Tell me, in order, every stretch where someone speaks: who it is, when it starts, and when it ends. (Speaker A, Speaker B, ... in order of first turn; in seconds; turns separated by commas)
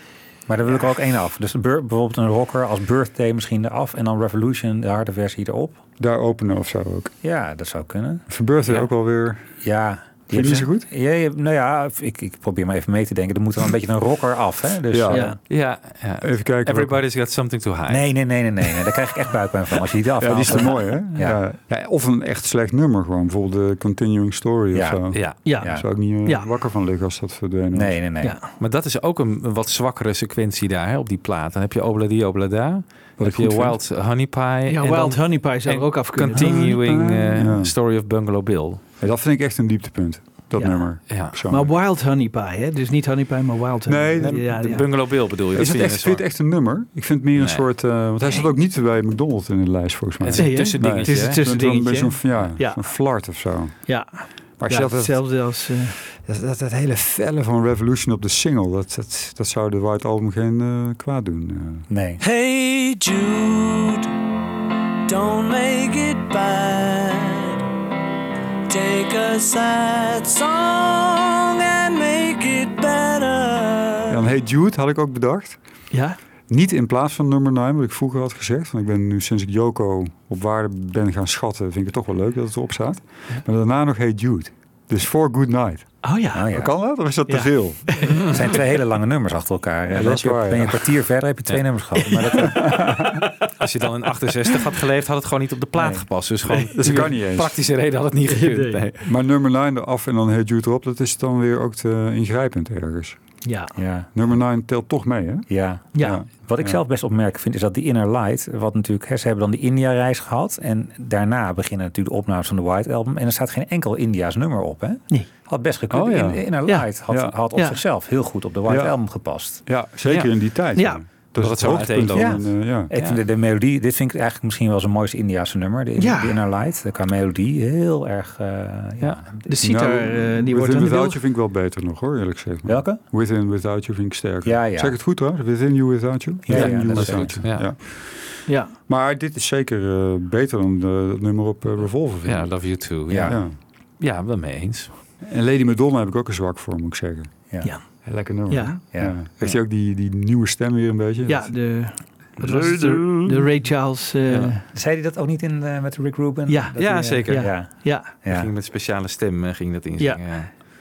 Speaker A: 0.5-5.8, Speaker B: 6.0-7.1, Speaker A: 7.2-8.3, Speaker B: 8.3-9.5, Speaker A: 9.6-15.4, Speaker B: 10.3-10.9, Speaker B: 14.9-15.3, Speaker C: 15.1-15.4, Speaker D: 15.5-18.1, Speaker B: 16.2-17.0, Speaker A: 17.9-21.4, Speaker B: 20.2-28.0, Speaker A: 24.7-25.9, Speaker D: 25.1-25.4, Speaker C: 25.4-26.5, Speaker A: 27.7-28.4, Speaker C: 28.2-28.5, Speaker D: 28.6-38.8, Speaker B: 33.2-33.8, Speaker C: 34.7-36.7, Speaker B: 36.3-37.7, Speaker B: 39.0-41.7, Speaker C: 40.5-44.9, Speaker D: 41.1-41.4, Speaker B: 43.9-54.1, Speaker D: 44.2-46.2, Speaker D: 47.4-47.7, Speaker C: 48.2-48.5, Speaker D: 50.2-51.4, Speaker C: 50.4-52.9, Speaker C: 53.9-56.0, Speaker B: 54.6-55.5, Speaker B: 56.1-61.9, Speaker A: 61.9-62.2, Speaker E: 62.2-64.1, Speaker E: 65.1-67.6, Speaker E: 68.7-74.2, Speaker B: 74.1-75.6, Speaker C: 75.9-76.2, Speaker B: 76.5-88.0, Speaker C: 86.0-86.6, Speaker A: 86.3-86.8, Speaker C: 87.2-88.5, Speaker A: 88.2-93.1, Speaker B: 89.9-90.9, Speaker C: 92.0-93.2, Speaker B: 92.4-93.1, Speaker D: 93.6-99.1, Speaker A: 95.8-96.1, Speaker B: 96.7-97.5, Speaker C: 98.3-98.8, Speaker B: 99.0-103.2, Speaker C: 103.4-103.8, Speaker A: 103.8-104.1, Speaker B: 104.1-106.8, Speaker A: 105.5-119.6, Speaker C: 105.9-106.2, Speaker B: 115.9-116.5, Speaker B: 117.1-117.3, Speaker C: 117.5-117.8, Speaker B: 118.7-118.9, Speaker B: 119.7-122.9, Speaker D: 120.1-120.3, Speaker C: 120.8-121.0, Speaker D: 121.4-123.2, Speaker A: 122.1-129.5, Speaker C: 126.0-126.4, Speaker C: 129.5-131.2, Speaker B: 129.6-143.6, Speaker A: 132.7-133.0, Speaker A: 134.4-135.0, Speaker A: 136.4-137.6, Speaker D: 136.5-137.7, Speaker C: 138.5-138.8, Speaker D: 142.2-144.9, Speaker A: 143.1-143.4, Speaker B: 145.2-147.4, Speaker C: 147.6-147.9, Speaker B: 148.0-151.6, Speaker C: 148.5-148.8, Speaker C: 151.3-154.7, Speaker B: 152.4-153.3, Speaker D: 154.3-154.5, Speaker A: 154.7-158.5, Speaker C: 156.5-158.1, Speaker D: 156.8-160.5, Speaker C: 160.0-160.4